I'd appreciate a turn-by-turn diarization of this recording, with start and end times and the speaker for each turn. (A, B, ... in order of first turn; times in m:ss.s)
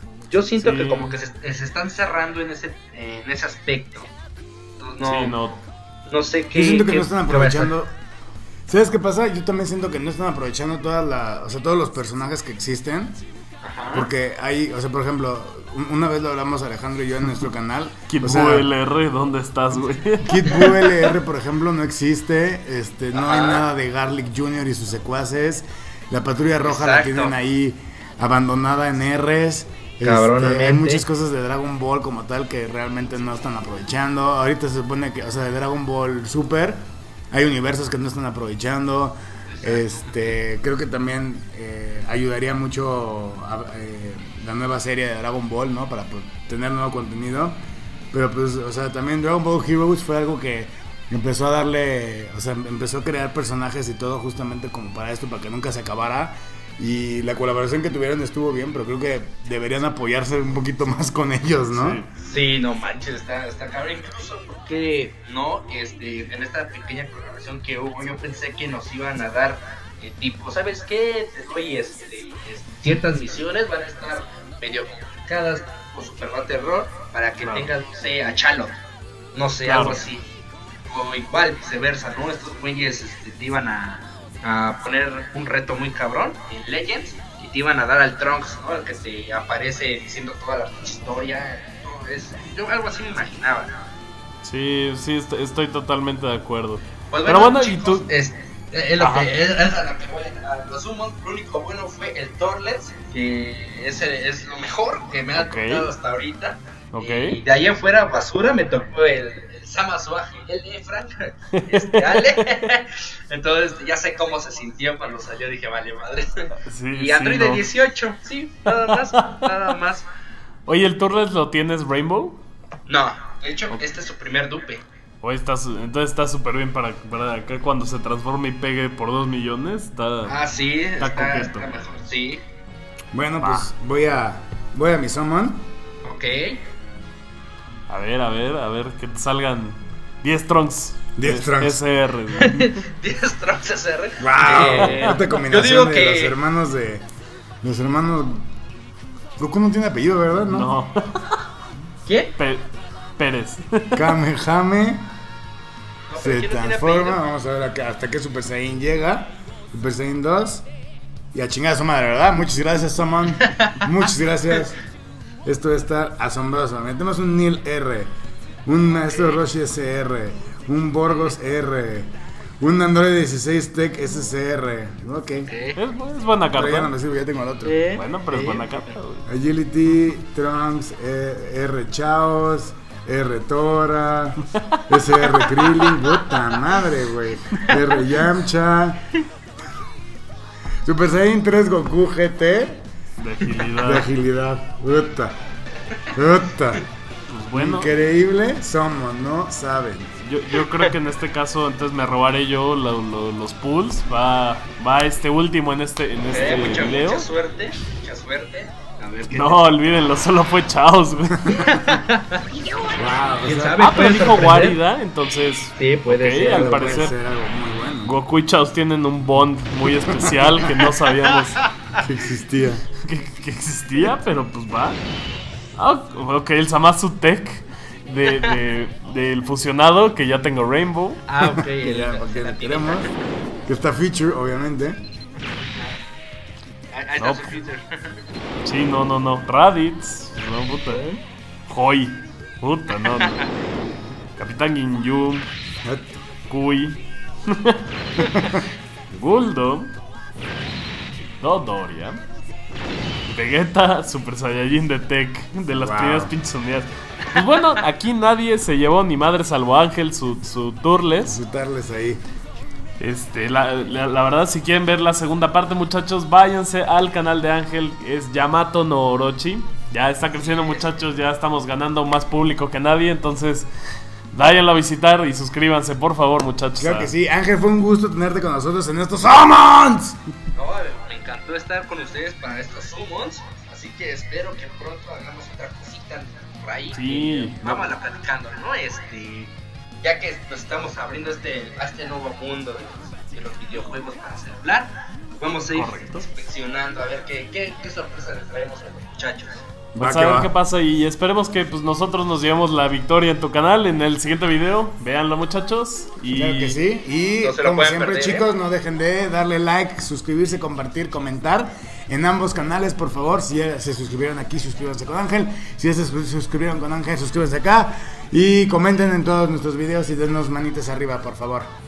0:00.3-0:04.1 A
0:00.6-0:01.2 B
0:04.8-0:05.4 A
0:05.0-0:05.6 B
0:06.1-0:07.7 A
0:06.5-0:07.9 C
0:08.7-0:13.2 C
0:13.6-0:14.1 A
0:13.9-0:18.7 C
0:18.1-0:20.8 B
0:20.1-0:47.6 C
0:23.1-0:23.6 A
0:26.6-0:27.4 A
0:30.0-0:31.0 A
0:39.5-0:40.1 A
0:48.1-1:02.0 C
1:01.7-1:02.1 B
1:02.2-1:18.7 A
1:17.4-1:17.7 B
1:19.3-1:20.2 A
1:19.6-1:20.0 B
1:20.9-1:33.7 A
1:34.4-1:38.1 B
1:37.1-2:00.0 A
1:39.0-1:39.3 B
1:45.4-1:45.9 B
1:46.9-1:47.4 B
1:51.6-1:52.4 B
1:56.7-1:57.6 B
1:58.7-1:59.4 B
2:00.7-2:02.4 B
2:02.9-2:04.8 A
2:05.2-2:10.3 B
2:10.2-2:12.4 A
2:11.0-2:11.7 B
2:13.1-2:15.6 C
2:13.4-2:13.7 B
2:16.0-2:16.6 A
2:17.9-2:22.7 B
2:21.2-2:21.8 C
2:22.4-2:26.4 A
2:24.2-2:27.0 C
2:24.4-2:25.2 B
2:27.6-2:28.5 C
2:29.4-2:30.7 C
2:30.4-2:31.4 B
2:32.0-2:32.3 A
2:32.4-2:32.6 B
2:33.2-2:34.1 B
2:33.9-2:35.1 C
2:36.1-2:37.2 A
2:36.2-2:40.6 C
2:41.3-2:44.8 C
2:43.4-2:43.7 A
2:45.4-2:48.1 C
2:48.6-2:55.5 C
2:48.9-2:49.4 A
2:55.5-2:55.8 A
2:55.8-2:56.9 B
2:56.5-2:57.8 C
2:57.6-2:58.9 A
2:58.0-2:59.3 B
2:59.2-3:09.1 C
3:05.5-3:06.4 A
3:10.8-3:12.8 C
3:13.2-3:14.1 B
3:13.8-3:15.4 C
3:16.1-3:16.8 C
3:17.3-3:17.9 B
3:17.5-3:20.1 C
3:20.2-3:27.3 B
3:20.6-3:20.9 A
3:26.3-3:29.6 A
3:29.3-3:31.6 B
3:31.4-3:32.0 C
3:31.5-3:32.4 A
3:32.9-3:33.8 C
3:33.4-3:34.8 A
3:33.8-3:37.1 B
3:35.8-3:37.0 A
3:36.5-3:38.1 C
3:38.0-3:41.6 B
3:42.0-3:42.8 C
3:43.0-3:45.0 B
3:45.8-3:51.2 B
3:48.2-3:48.6 A
3:51.3-3:53.1 A
3:51.7-3:53.1 C
3:53.6-3:55.0 C
3:56.9-3:58.2 A
3:57.2-3:57.5 B
3:58.6-4:01.1 B
4:00.9-4:01.2 A
4:01.7-4:03.4 B
4:03.0-4:03.5 A
4:04.4-4:05.5 B
4:05.8-4:06.2 C
4:06.5-4:08.3 B
4:08.3-4:08.6 C
4:09.1-4:09.9 B
4:11.4-4:12.2 B
4:13.3-4:21.4 B
4:15.7-4:16.3 C
4:17.4-4:17.6 A
4:21.2-4:22.2 C
4:23.0-4:33.7 B
4:30.3-4:30.9 A
4:34.3-4:37.1 B
4:36.8-4:40.2 C
4:40.5-4:59.6 A
4:46.9-4:47.7 B
4:55.7-4:56.2 B
4:59.9-5:06.8 B
5:00.0-5:00.5 C
5:06.3-5:21.7 C
5:07.4-5:08.5 A